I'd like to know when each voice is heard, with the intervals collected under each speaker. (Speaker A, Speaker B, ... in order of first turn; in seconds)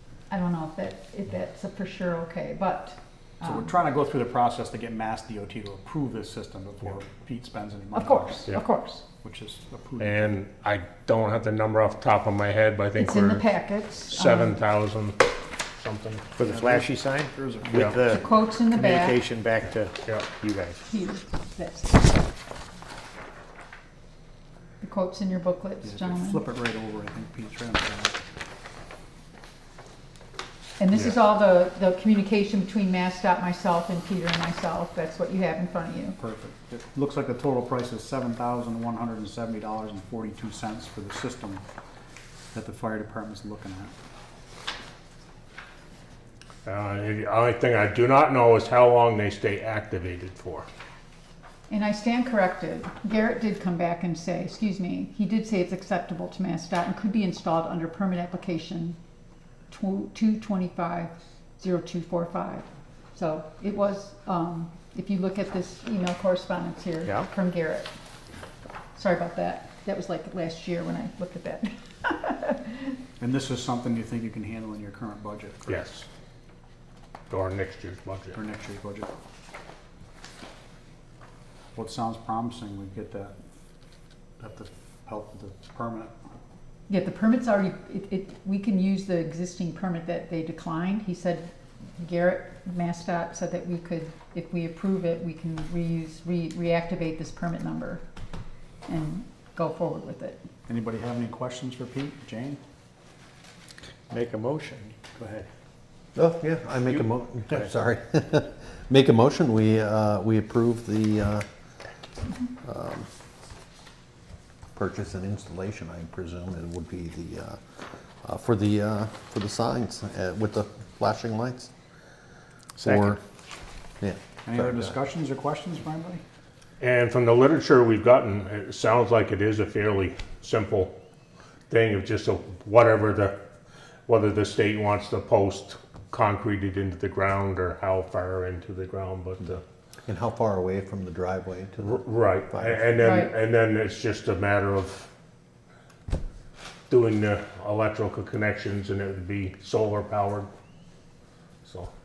Speaker A: 0.3-3.7, 7.9-9.0, 13.0-14.6, 18.1-19.2, 20.9-22.2, 24.8-26.4, 30.8-36.2, 51.7-59.0, 59.7-67.9, 68.9-73.0, 86.9-98.0, 98.8-100.4, 143.0-143.3
Speaker B: 3.4-8.6, 9.2-10.3, 16.4-18.1, 25.8-28.2, 36.2-41.6, 42.5-43.9, 73.2-75.8, 78.3-79.1, 81.7-83.3, 84.4-86.1, 100.7-102.6, 124.5-126.2
Speaker C: 10.0-13.4, 14.1-16.2, 46.6-50.7, 75.7-76.0, 77.3-78.4, 126.8-130.9, 131.7-133.3, 134.1-139.6, 141.8-145.1, 146.9-150.5, 151.6-151.9
Speaker D: 16.4-20.8, 104.1-105.5, 107.5-107.8, 122.8-123.2
Speaker E: 106.1-111.5, 112.6-113.1, 114.7-121.7, 122.8-123.2, 124.0-124.9, 140.1-142.9